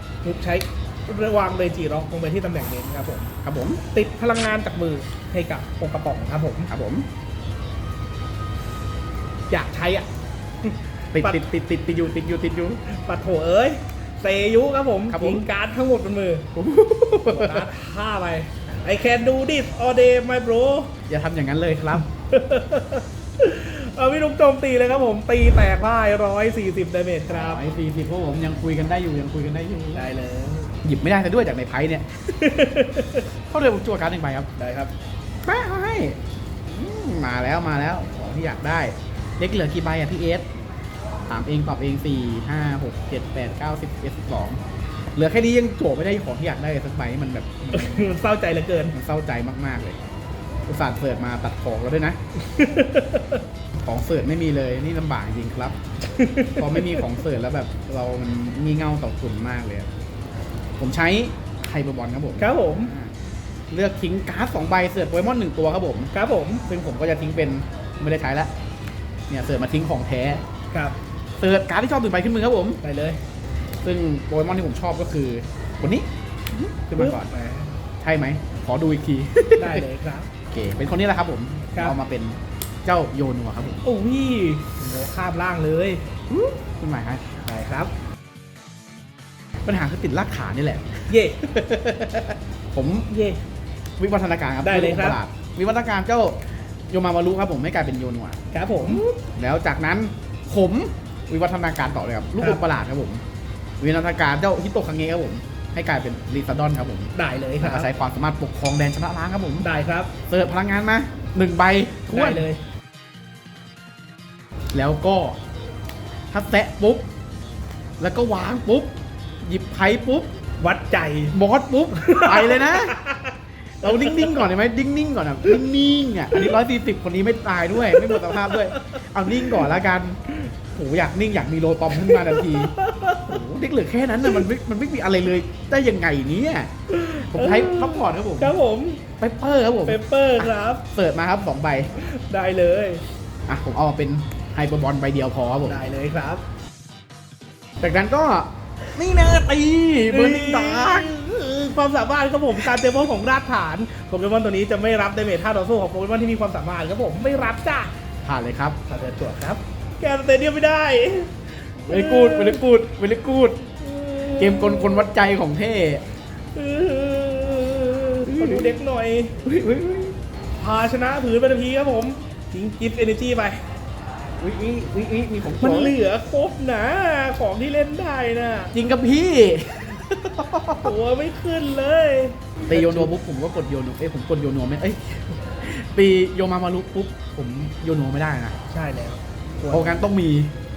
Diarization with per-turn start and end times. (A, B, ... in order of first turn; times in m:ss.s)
0:00.2-0:03.3 A
0:03.4-0:03.8 B
0:03.9-0:06.7 A
0:06.7-0:07.0 B
0:09.5-0:10.1 A
0:10.7-0:12.8 B
0:11.2-0:11.4 A
0:12.9-0:16.5 A
0:15.1-0:15.4 B
0:16.6-0:17.6 B
0:17.3-0:20.9 A
0:21.1-0:22.0 B
0:22.2-0:27.6 A
0:27.3-0:30.0 B
0:30.0-0:30.8 A
0:30.8-0:32.0 B
0:32.3-0:33.3 A
0:33.5-0:34.5 B
0:34.6-0:34.9 A
0:35.5-0:36.2 B
0:36.7-0:40.4 B
0:41.3-0:44.6 B
0:45.2-0:48.1 B
0:47.7-0:49.0 A
0:49.0-0:50.0 B
0:50.7-0:52.2 B
0:52.4-0:53.4 A
0:53.9-0:55.7 B
0:56.0-0:57.0 A
0:56.6-0:59.9 B
1:00.8-1:03.1 B
1:02.4-1:02.9 A
1:03.7-1:06.1 B
1:06.1-1:06.6 A
1:06.7-1:08.5 B
1:09.3-1:10.4 B
1:10.7-1:11.0 A
1:11.4-1:12.8 B
1:12.8-1:13.2 A
1:13.8-1:17.3 B
1:16.9-1:17.7 A
1:18.0-1:19.8 B
1:19.6-1:20.3 A
1:20.5-1:22.4 B
1:22.9-1:23.8 B
1:23.8-1:26.0 A
1:26.3-1:27.3 B
1:27.4-1:27.9 A
1:29.7-1:31.0 B
1:31.1-1:31.4 A
1:31.5-1:33.1 B
1:33.1-1:33.4 A
1:34.0-1:36.4 B
1:34.6-1:35.2 A
1:36.9-1:43.2 B
1:38.5-1:39.0 A
1:43.8-1:47.1 B
1:47.2-1:47.9 A
1:47.6-1:49.6 B
1:49.6-1:50.1 A
1:50.3-1:52.4 B
1:52.1-1:52.6 A
1:54.7-1:55.4 B
1:56.3-1:57.0 B
1:58.0-1:58.9 B
1:59.4-2:00.3 B
2:00.6-2:01.4 A
2:01.3-2:03.0 B
2:01.9-2:04.4 A
2:03.8-2:10.2 B
2:07.8-2:09.6 A
2:10.8-2:12.7 B
2:11.9-2:13.4 A
2:13.3-2:16.7 B
2:16.9-2:19.0 A
2:17.3-2:18.5 B
2:19.2-2:21.9 B
2:19.9-2:20.8 A
2:22.0-2:23.0 A
2:23.5-2:25.8 B
2:25.6-2:26.4 A
2:27.8-2:31.1 B
2:30.1-2:37.9 A
2:38.2-2:38.8 B
2:38.9-2:42.6 A
2:41.9-2:43.6 B
2:43.8-2:45.1 A
2:44.4-2:46.0 B
2:46.6-2:49.4 A
2:48.3-2:48.8 B
2:49.4-2:50.2 B
2:50.6-2:53.6 A
2:54.4-2:55.9 B
2:55.6-2:58.7 A
2:58.7-3:00.9 B
3:00.8-3:03.1 A
3:02.7-3:08.5 B
3:08.7-3:10.0 A
3:09.7-3:10.5 B